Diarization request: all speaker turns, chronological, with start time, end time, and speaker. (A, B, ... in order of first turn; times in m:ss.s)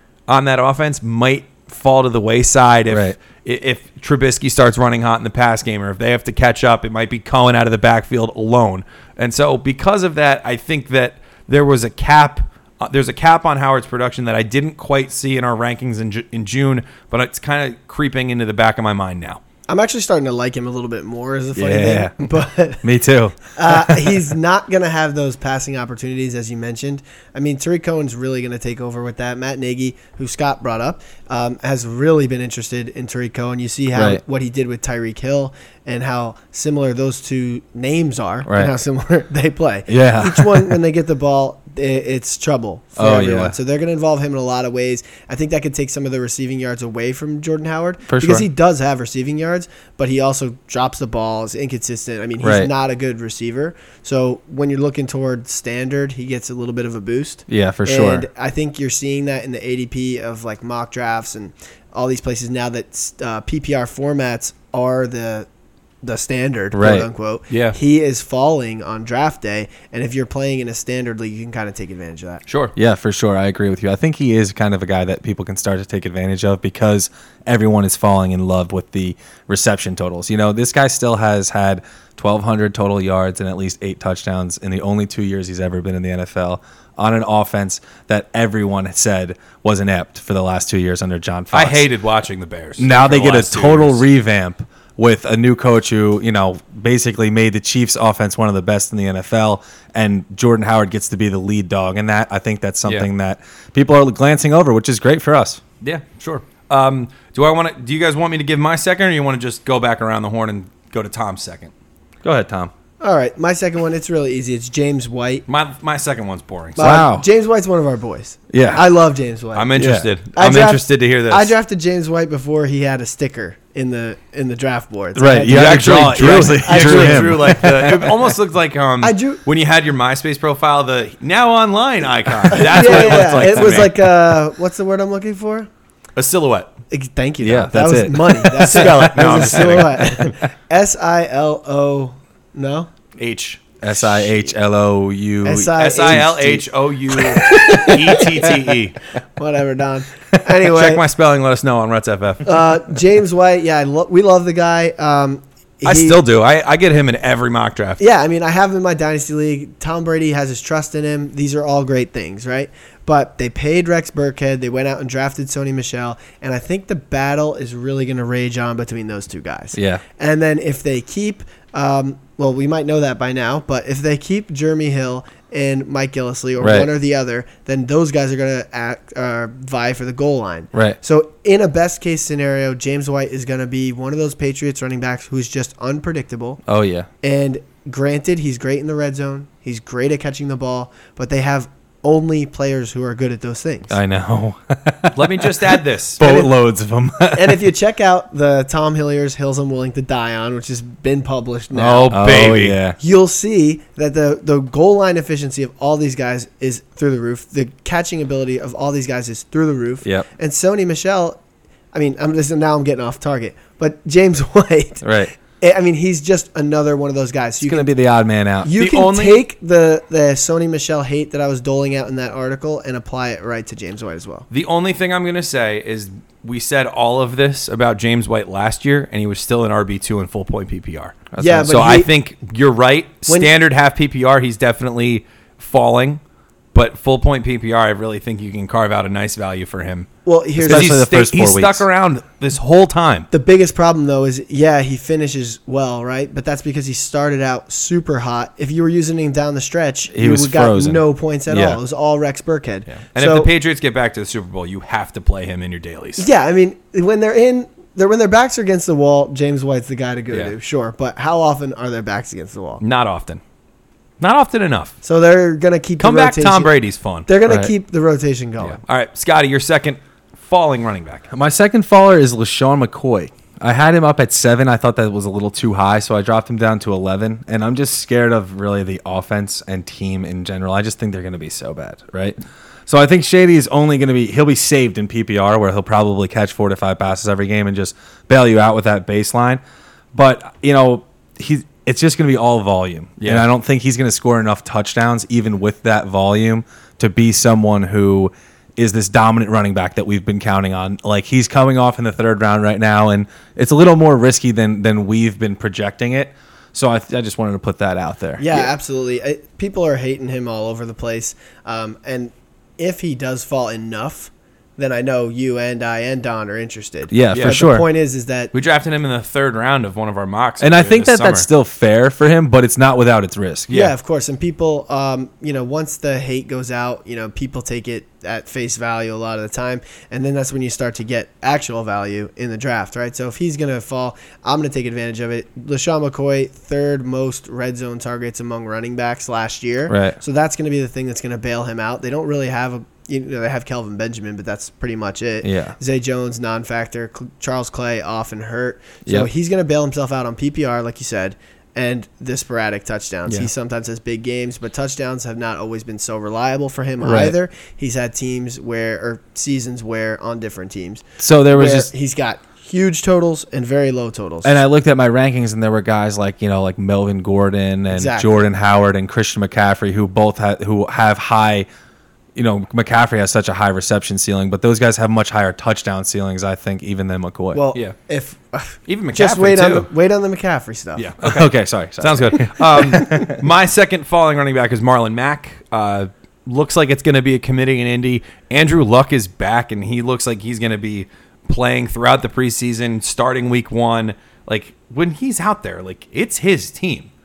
0:00.3-0:19.4 A
0:02.9-0:03.2 B
0:19.7-0:22.8 C
0:21.6-0:22.2 B
0:22.8-0:24.2 B
0:23.5-1:05.5 C
0:33.9-0:34.2 B
0:38.5-0:38.7 B
0:39.9-0:40.8 B
0:43.0-0:43.6 B
0:48.1-0:48.5 B
0:52.4-0:52.7 B
0:57.5-0:58.3 B
1:06.0-1:12.4 C
1:06.7-1:07.1 B
1:07.5-1:07.8 A
1:12.5-1:12.7 A
1:12.8-1:31.9 B
1:31.5-1:34.0 A
1:32.8-1:45.6 B
1:45.8-1:51.7 A
1:52.2-1:52.7 B
1:53.0-1:55.4 C
1:55.5-1:56.9 A
1:56.8-1:59.7 C
1:56.8-1:57.3 B
1:58.5-1:58.8 B
1:59.6-2:01.5 A
1:59.8-2:00.1 B
2:00.3-2:07.6 C
2:05.2-2:08.3 B
2:05.5-2:14.0 A
2:09.0-2:09.4 C
2:12.5-2:15.7 C
2:12.8-2:13.8 B
2:16.2-2:16.7 A
2:16.9-2:22.9 C
2:17.4-2:20.1 B
2:18.6-2:20.1 A
2:23.2-2:23.8 A
2:23.8-2:26.3 B
2:25.4-2:26.6 C
2:25.8-2:29.0 A
2:27.2-2:28.6 C
2:29.4-2:31.0 C
2:30.6-2:32.5 A
2:32.4-2:36.2 C
2:35.8-2:38.0 A
2:38.0-3:06.6 C
2:49.7-2:50.0 B
2:56.6-2:56.9 B
3:06.7-3:07.1 B
3:07.2-3:14.0 C
3:13.9-3:17.6 B
3:15.1-3:16.2 A
3:16.2-3:16.5 C
3:17.3-3:22.2 C
3:21.7-3:22.8 A
3:22.1-3:23.0 B
3:23.0-3:31.4 C
3:31.9-3:37.9 C
3:35.0-3:35.3 B
3:37.6-3:38.7 B
3:38.6-3:44.5 C
3:38.8-3:39.4 A
3:44.5-3:56.2 A
3:51.3-3:51.8 B
3:51.4-3:52.1 C
3:53.3-3:53.5 C
3:56.7-4:00.1 A
4:00.3-4:01.0 C
4:00.6-4:01.9 B
4:00.6-4:03.3 A
4:03.3-4:13.5 C
4:10.1-4:11.8 B
4:12.9-4:16.3 A
4:16.2-4:22.8 C
4:22.8-4:23.4 A
4:24.2-4:24.9 A
4:25.0-4:26.7 C
4:26.0-4:27.3 A
4:27.3-4:28.8 C
4:27.5-4:27.7 B
4:28.6-4:31.3 A
4:31.3-4:42.4 B
4:42.9-4:49.6 B
4:50.1-5:08.7 B
4:53.2-4:53.5 A
5:08.4-5:18.5 C
5:17.1-5:17.8 B
5:17.3-5:17.6 A
5:18.5-5:21.5 A
5:20.6-5:23.7 B
5:23.7-6:04.6 C
5:39.9-5:40.2 B
5:45.4-5:45.8 B
5:57.0-5:57.4 B
6:01.2-6:01.9 B
6:04.4-6:11.7 B
6:07.9-6:08.5 C
6:12.4-6:17.6 B
6:17.5-6:21.1 C
6:18.9-6:19.9 A
6:21.0-6:37.1 A
6:21.2-6:23.4 B